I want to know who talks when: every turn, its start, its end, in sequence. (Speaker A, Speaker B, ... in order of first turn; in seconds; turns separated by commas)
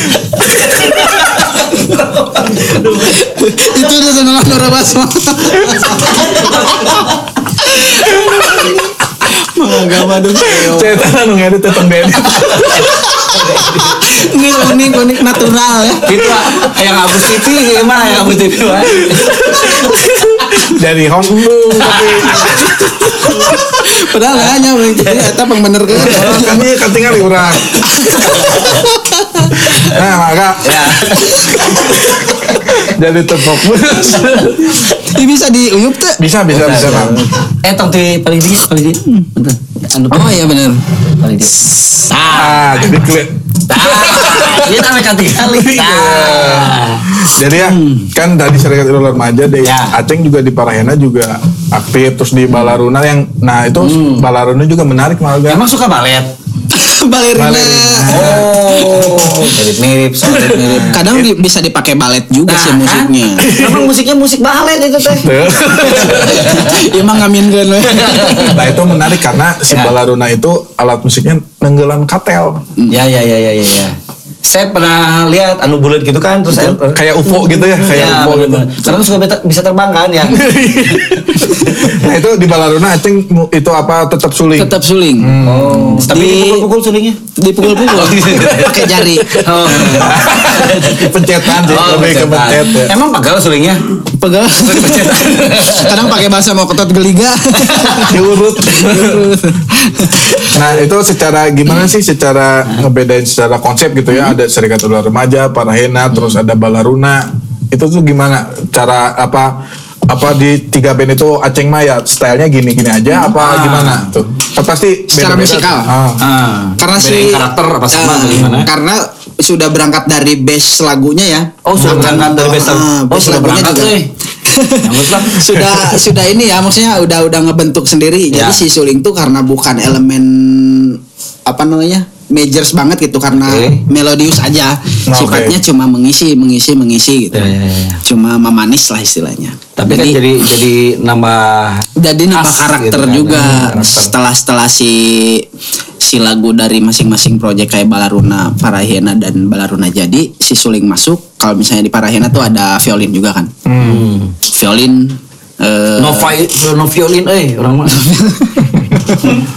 Speaker A: 0.3-3.3, Speaker B: 2.7-11.1, Speaker A: 5.7-7.2, Speaker C: 8.1-8.7, Speaker C: 10.3-12.9, Speaker A: 12.3-14.1, Speaker B: 12.4-16.7, Speaker A: 16.0-20.5, Speaker B: 17.4-18.4, Speaker C: 19.1-22.8, Speaker B: 19.6-20.5, Speaker A: 21.8-23.6, Speaker B: 21.9-26.7, Speaker A: 24.3-25.3, Speaker A: 25.9-26.6, Speaker C: 26.0-27.9, Speaker B: 27.8-29.9, Speaker A: 27.8-28.9, Speaker A: 29.7-30.0, Speaker C: 29.7-34.9, Speaker A: 30.6-32.8, Speaker B: 31.0-31.8, Speaker A: 34.2-35.2, Speaker B: 35.0-37.1, Speaker C: 36.2-37.3, Speaker A: 36.5-40.5, Speaker B: 40.1-40.8, Speaker A: 41.1-42.8, Speaker C: 42.3-55.6, Speaker A: 43.7-47.1, Speaker B: 47.5-48.1, Speaker A: 49.6-50.0, Speaker A: 53.8-54.3, Speaker A: 55.5-56.3, Speaker B: 56.7-59.4, Speaker C: 57.4-58.6, Speaker A: 58.1-61.2, Speaker B: 60.3-63.5, Speaker A: 62.5-67.0, Speaker C: 63.4-63.9, Speaker C: 65.2-66.6, Speaker B: 66.0-68.7, Speaker A: 67.8-68.8, Speaker C: 68.5-72.7, Speaker A: 69.7-70.0, Speaker A: 72.9-81.9, Speaker C: 76.8-78.8, Speaker C: 80.3-86.1, Speaker B: 84.6-86.7, Speaker A: 85.4-93.9, Speaker B: 87.4-90.2, Speaker C: 89.8-93.0, Speaker B: 94.2-100.6, Speaker A: 94.6-96.2, Speaker A: 97.6-98.1, Speaker C: 98.1-99.4, Speaker C: 100.5-116.2, Speaker A: 113.4-114.1, Speaker B: 115.1-115.9, Speaker A: 116.2-118.7, Speaker B: 116.8-140.4, Speaker A: 121.7-124.1, Speaker A: 124.8-125.6, Speaker A: 128.3-128.6, Speaker A: 133.4-133.8, Speaker C: 135.1-135.6, Speaker A: 137.3-138.0, Speaker A: 139.8-144.1, Speaker B: 142.0-145.5, Speaker B: 146.0-153.5, Speaker C: 153.7-154.1, Speaker A: 153.8-154.3, Speaker B: 154.4-156.4, Speaker A: 156.0-158.5, Speaker B: 158.6-159.3